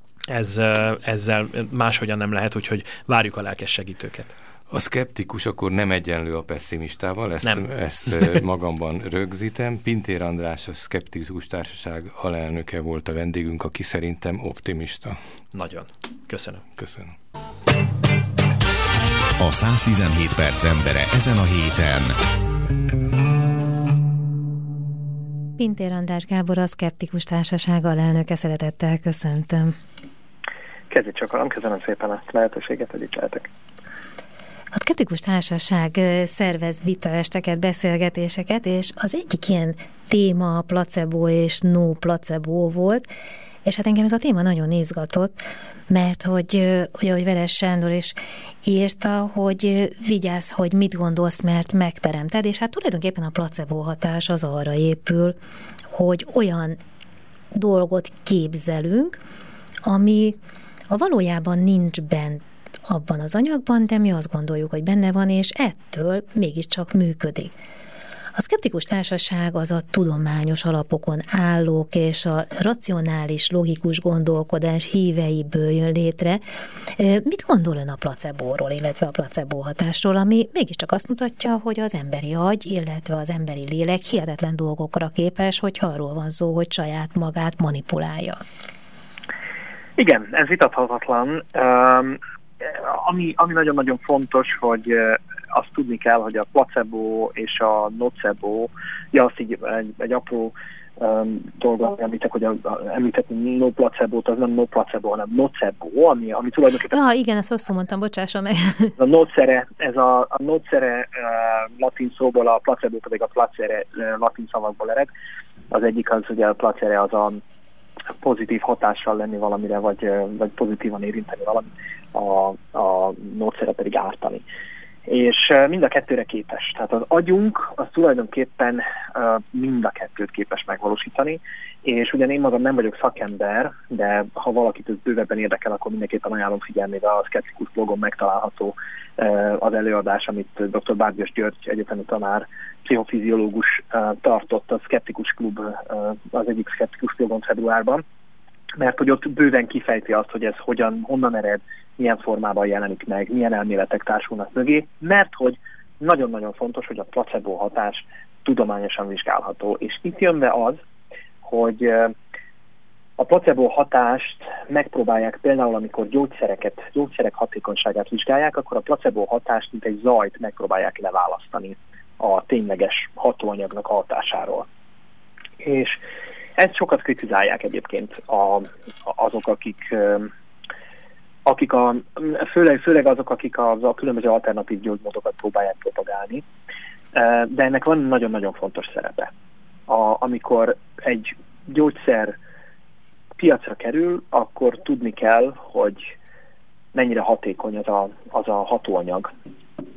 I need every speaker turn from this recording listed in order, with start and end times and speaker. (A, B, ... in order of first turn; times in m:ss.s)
0:00.3-0:04.3 A
0:04.7-0:15.2 B
0:07.4-0:08.4 A
0:15.5-0:16.6 A
0:16.8-0:17.1 B
0:19.4-0:22.2 C
0:25.6-0:29.8 D
0:30.9-0:33.5 E
0:34.7-0:43.0 D
0:43.6-0:45.4 D
0:45.9-0:55.4 D
0:55.9-0:56.8 D
0:57.5-0:59.2 D
0:59.8-1:00.4 D
1:00.9-1:07.5 D
1:08.4-1:16.4 D
1:17.0-1:28.4 D
1:30.0-1:47.0 E
1:46.9-1:48.9 D
1:49.0-1:55.1 E
1:55.7-1:57.4 E
1:58.2-2:04.4 E
2:05.1-2:28.0 E
2:28.8-2:40.8 E
2:41.4-2:42.1 E
2:43.2-2:54.7 E
2:55.6-2:56.0 E
2:56.6-3:00.3 E
3:01.4-3:06.4 E
3:07.1-3:09.3 E
3:09.9-3:12.4 E
3:13.4-3:16.1 E
3:16.9-3:19.3 E